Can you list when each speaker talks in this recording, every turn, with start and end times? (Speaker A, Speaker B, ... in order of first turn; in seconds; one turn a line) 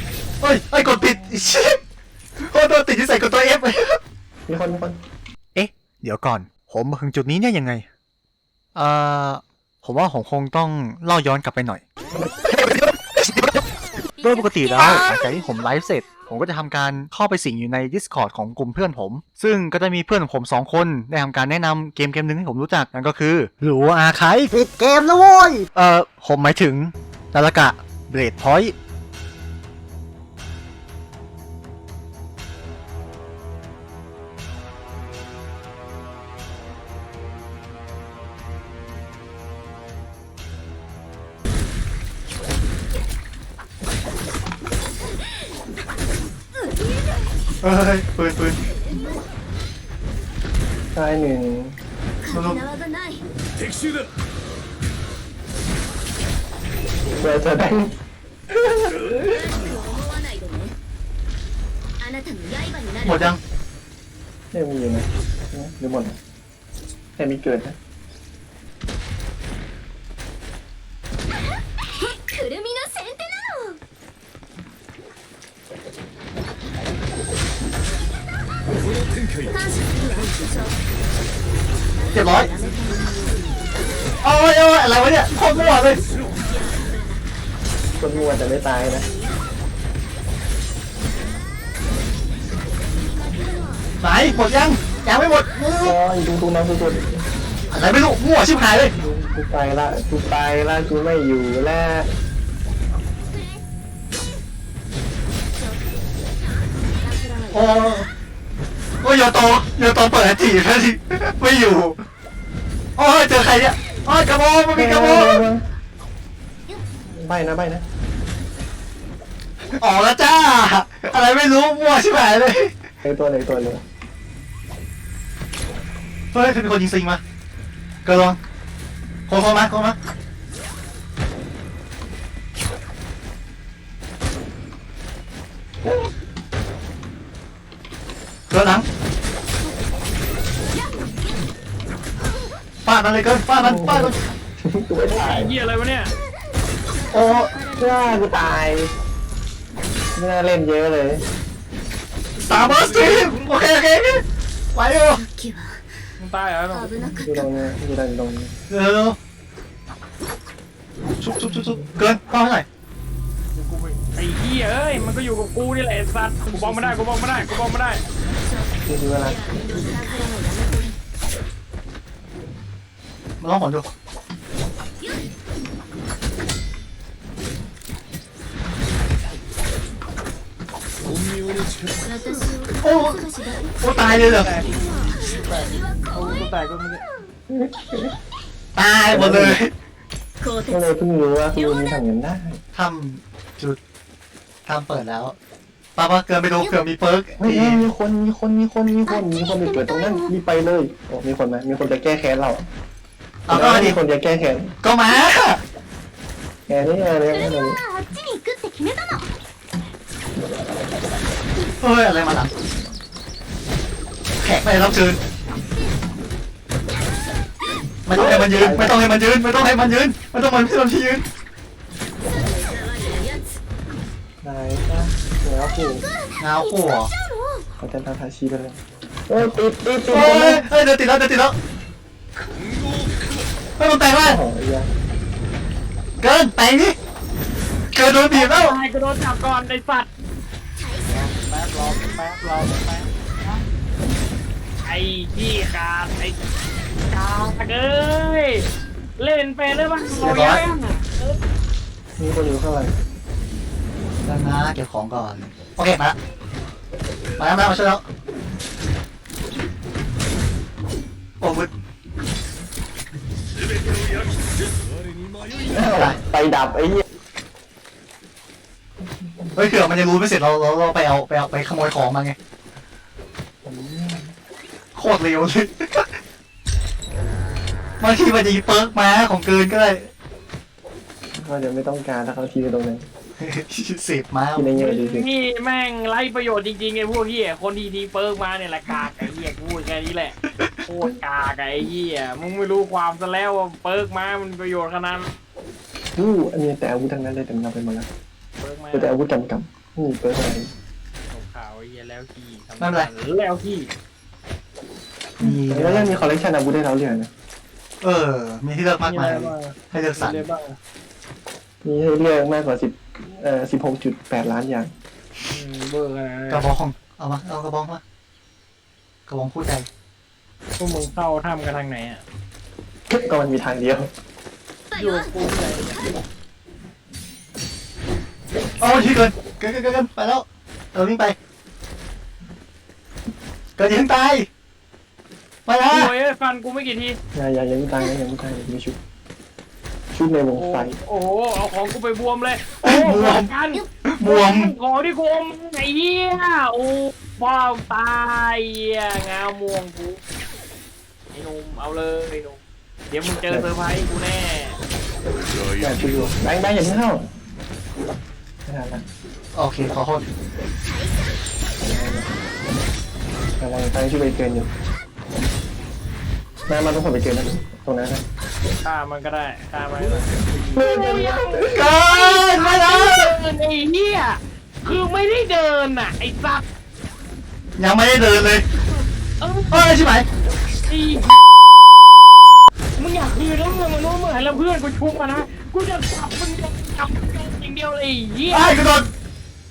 Speaker A: 0.4-1.8
Speaker A: 2.4-4.0
Speaker B: 4.5-5.0
Speaker A: 5.5-7.9
Speaker A: 8.8-11.8
Speaker A: 12.5-13.6
Speaker A: 14.2-28.7
Speaker C: 14.7-15.4
Speaker A: 47.6-48.6
Speaker B: 50.9-51.8
Speaker C: 52.2-53.2
Speaker A: 52.3-52.6
Speaker B: 57.2-58.0
Speaker C: 59.0-60.8
Speaker C: 62.0-63.3
Speaker A: 63.0-63.4
Speaker B: 64.5-66.2
Speaker B: 67.2-67.8
Speaker C: 72.0-73.8
Speaker C: 79.5-80.8
Speaker C: 82.1-83.6
Speaker A: 82.1-82.5
Speaker A: 84.2-86.0
Speaker B: 88.0-89.1
Speaker A: 94.0-96.0
Speaker B: 95.8-97.2
Speaker A: 97.7-98.9
Speaker B: 99.0-102.1
Speaker C: 107.0-108.1
Speaker A: 107.5-108.1
Speaker A: 109.0-112.0
Speaker A: 113.0-115.5
Speaker B: 114.7-115.6
Speaker B: 117.1-117.8
Speaker A: 119.8-122.7
Speaker B: 123.0-123.8
Speaker A: 126.3-127.2
Speaker A: 128.1-128.4
Speaker A: 129.3-130.0
Speaker A: 138.5-138.9
Speaker A: 142.8-144.2
Speaker B: 143.6-145.5
Speaker D: 145.1-146.1
Speaker C: 147.0-148.3
Speaker A: 147.1-147.5
Speaker B: 147.8-148.9
Speaker B: 150.2-151.2
Speaker A: 152.4-155.2
Speaker C: 155.2-155.8
Speaker D: 156.2-156.9
Speaker C: 156.7-157.5
Speaker B: 157.1-158.5
Speaker A: 158.7-159.2
Speaker A: 161.2-162.7
Speaker B: 161.6-161.9
Speaker D: 163.5-168.0
Speaker A: 166.5-167.0
Speaker C: 168.4-168.7
Speaker B: 168.8-169.4
Speaker C: 169.2-171.0
Speaker A: 173.4-173.9
Speaker C: 182.0-183.9
Speaker A: 182.8-183.2
Speaker A: 183.8-184.5
Speaker D: 184.0-187.0
Speaker C: 185.0-186.4
Speaker B: 187.5-188.1
Speaker A: 188.8-189.7
Speaker B: 189.1-189.6
Speaker C: 190.4-190.9
Speaker B: 190.7-192.6
Speaker C: 191.6-192.0
Speaker A: 192.7-193.8
Speaker A: 194.7-195.3
Speaker A: 196.0-197.9
Speaker B: 197.4-202.7
Speaker C: 199.1-200.3
Speaker A: 203.5-204.0
Speaker B: 203.5-204.7
Speaker A: 204.8-205.6
Speaker B: 206.7-207.8
Speaker C: 207.3-209.3
Speaker A: 211.8-212.5
Speaker A: 214.4-215.2
Speaker A: 218.1-221.2
Speaker B: 218.1-219.0
Speaker C: 222.3-223.6
Speaker B: 224.4-226.1
Speaker A: 226.4-227.1
Speaker C: 226.6-227.7
Speaker B: 227.8-230.7
Speaker A: 230.1-231.6
Speaker A: 233.8-234.4
Speaker B: 234.2-234.9
Speaker A: 236.2-237.0
Speaker A: 237.9-238.8
Speaker D: 238.3-240.1
Speaker D: 241.1-243.1
Speaker D: 244.8-246.4
Speaker D: 247.1-248.7
Speaker D: 249.2-251.4
Speaker A: 250.1-250.6
Speaker B: 252.2-252.9
Speaker A: 254.2-256.2
Speaker A: 257.4-258.1
Speaker A: 261.4-261.7
Speaker B: 265.6-267.0
Speaker A: 265.9-266.2
Speaker A: 269.6-272.4
Speaker B: 273.6-274.3
Speaker A: 274.9-276.1
Speaker A: 278.0-280.1
Speaker B: 281.4-283.1
Speaker A: 283.4-284.7
Speaker B: 284.6-285.3
Speaker D: 284.8-295.3
Speaker A: 290.4-290.7
Speaker B: 296.2-298.1
Speaker D: 298.6-299.1
Speaker B: 298.9-300.7
Speaker D: 301.3-303.9
Speaker A: 302.8-303.1
Speaker A: 305.4-306.3
Speaker B: 305.4-307.3
Speaker A: 308.0-310.4
Speaker D: 309.0-310.8
Speaker B: 311.8-314.9
Speaker D: 315.5-316.7
Speaker A: 316.5-318.0
Speaker A: 319.3-319.9
Speaker D: 320.8-322.2
Speaker B: 323.1-324.1
Speaker C: 324.9-325.3
Speaker D: 324.9-326.0
Speaker A: 328.8-331.4
Speaker A: 333.8-334.5
Speaker A: 335.7-336.1
Speaker D: 335.9-337.2
Speaker B: 337.4-339.0
Speaker B: 340.1-341.0
Speaker D: 340.6-350.2
Speaker A: 342.8-344.7
Speaker D: 351.3-354.8
Speaker B: 355.8-357.3
Speaker B: 358.7-359.1
Speaker A: 359.6-360.2
Speaker B: 361.8-362.3
Speaker B: 363.6-364.7
Speaker B: 366.7-368.2
Speaker D: 368.8-376.6
Speaker B: 370.7-371.8
Speaker A: 371.6-373.4
Speaker A: 377.8-378.6
Speaker D: 379.4-380.0
Speaker A: 379.7-380.3
Speaker D: 380.9-381.3
Speaker D: 383.0-388.8
Speaker A: 388.5-389.1